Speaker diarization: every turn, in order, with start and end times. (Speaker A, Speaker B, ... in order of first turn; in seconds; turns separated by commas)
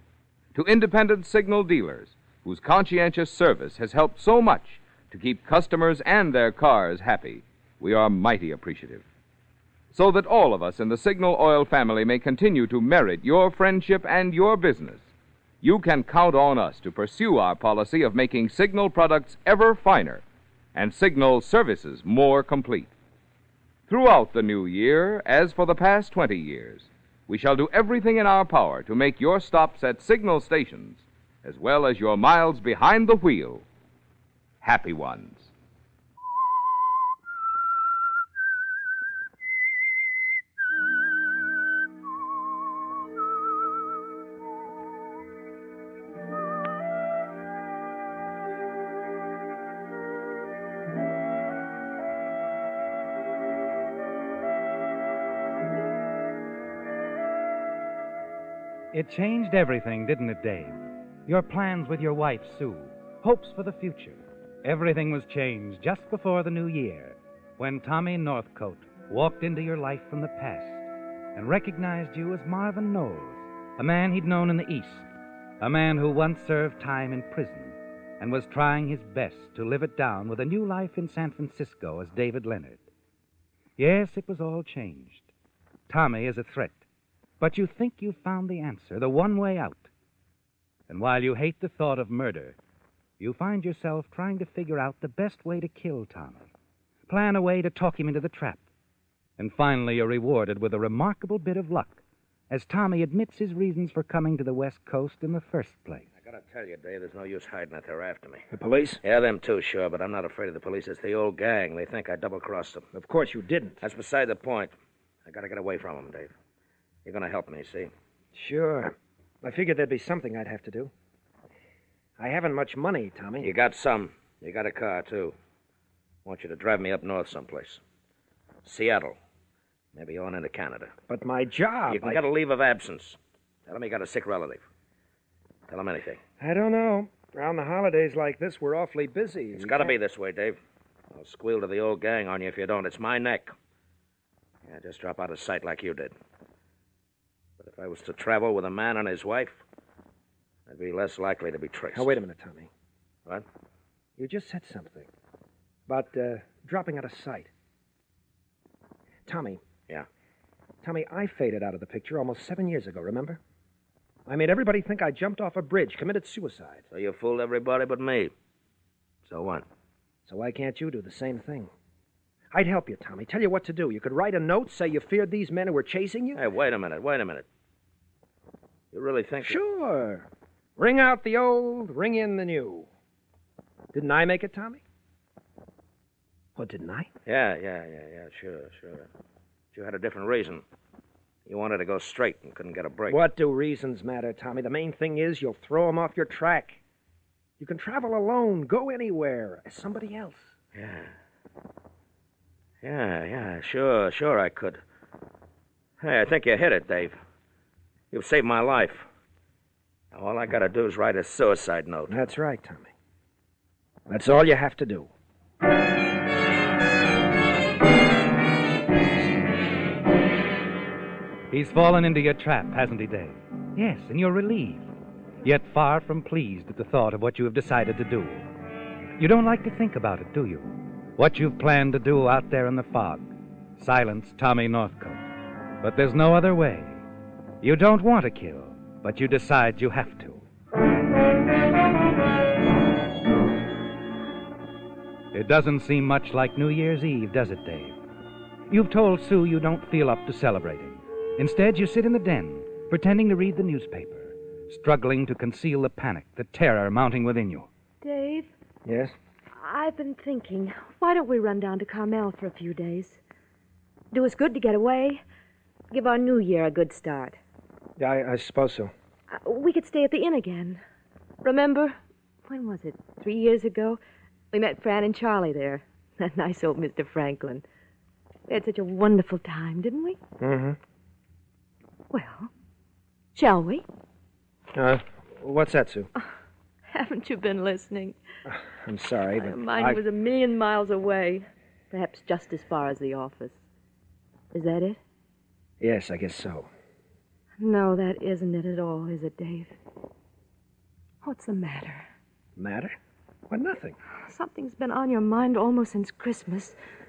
Speaker A: 0.6-9.0, Speaker A: 9.9-15.1, Speaker A: 15.6-20.2, Speaker A: 20.8-22.9, Speaker A: 23.9-33.6, Speaker A: 34.6-35.5, Speaker B: 58.9-75.1, Speaker B: 75.6-82.8, Speaker B: 83.8-85.3, Speaker B: 85.9-86.8, Speaker B: 87.4-89.9, Speaker B: 90.9-92.6, Speaker B: 93.2-96.5, Speaker B: 97.1-98.7, Speaker B: 99.4-106.1, Speaker C: 106.2-108.5, Speaker D: 108.5-109.0, Speaker C: 109.0-112.9, Speaker D: 112.9-113.8, Speaker C: 113.8-114.8, Speaker C: 115.3-116.3, Speaker C: 117.0-117.9, Speaker D: 118.3-120.9, Speaker D: 122.2-123.5, Speaker C: 123.4-125.3, Speaker C: 126.2-127.8, Speaker C: 128.6-129.2, Speaker C: 129.9-130.9, Speaker D: 131.1-132.2, Speaker C: 131.9-134.7, Speaker C: 135.7-136.2, Speaker D: 136.4-139.9, Speaker C: 139.6-140.6, Speaker C: 141.1-143.6, Speaker C: 144.7-146.1, Speaker C: 147.6-149.6, Speaker C: 150.7-152.2, Speaker D: 151.9-152.7, Speaker D: 154.2-155.1, Speaker D: 155.9-157.5, Speaker D: 159.3-159.6, Speaker D: 160.8-163.4, Speaker D: 164.3-166.8, Speaker C: 166.9-168.3, Speaker C: 169.3-169.7, Speaker D: 170.3-171.7, Speaker D: 172.5-176.4, Speaker C: 176.3-177.5, Speaker C: 178.9-179.6, Speaker D: 179.4-182.9, Speaker D: 183.9-184.8, Speaker D: 186.6-187.1, Speaker C: 187.2-189.1, Speaker C: 189.7-190.7, Speaker C: 191.5-193.2, Speaker D: 193.1-196.8, Speaker D: 197.6-200.5, Speaker C: 200.8-201.1, Speaker C: 202.8-204.8, Speaker C: 206.0-207.2, Speaker C: 208.1-209.1, Speaker C: 210.1-212.2, Speaker D: 212.1-212.9, Speaker D: 214.1-215.1, Speaker B: 221.5-224.9, Speaker B: 225.4-228.4, Speaker B: 229.2-235.3, Speaker B: 235.8-237.1, Speaker B: 237.6-240.5, Speaker B: 245.3-248.0, Speaker B: 248.7-257.7, Speaker E: 258.0-258.5, Speaker D: 258.9-259.1, Speaker E: 259.5-263.2, Speaker E: 264.1-265.2, Speaker E: 265.9-267.4, Speaker D: 268.0-268.9, Speaker E: 269.3-270.8, Speaker E: 271.4-274.0, Speaker E: 274.5-277.6, Speaker E: 278.5-280.2, Speaker D: 280.4-280.8, Speaker E: 282.1-282.5, Speaker E: 283.3-283.9, Speaker D: 284.7-286.1, Speaker E: 286.9-288.2, Speaker D: 288.5-290.0, Speaker E: 289.4-293.6, Speaker E: 294.5-295.0, Speaker D: 295.8-296.7, Speaker E: 297.6-299.8, Speaker E: 301.2-302.1, Speaker D: 302.6-303.0, Speaker D: 303.5-304.0, Speaker E: 304.3-306.8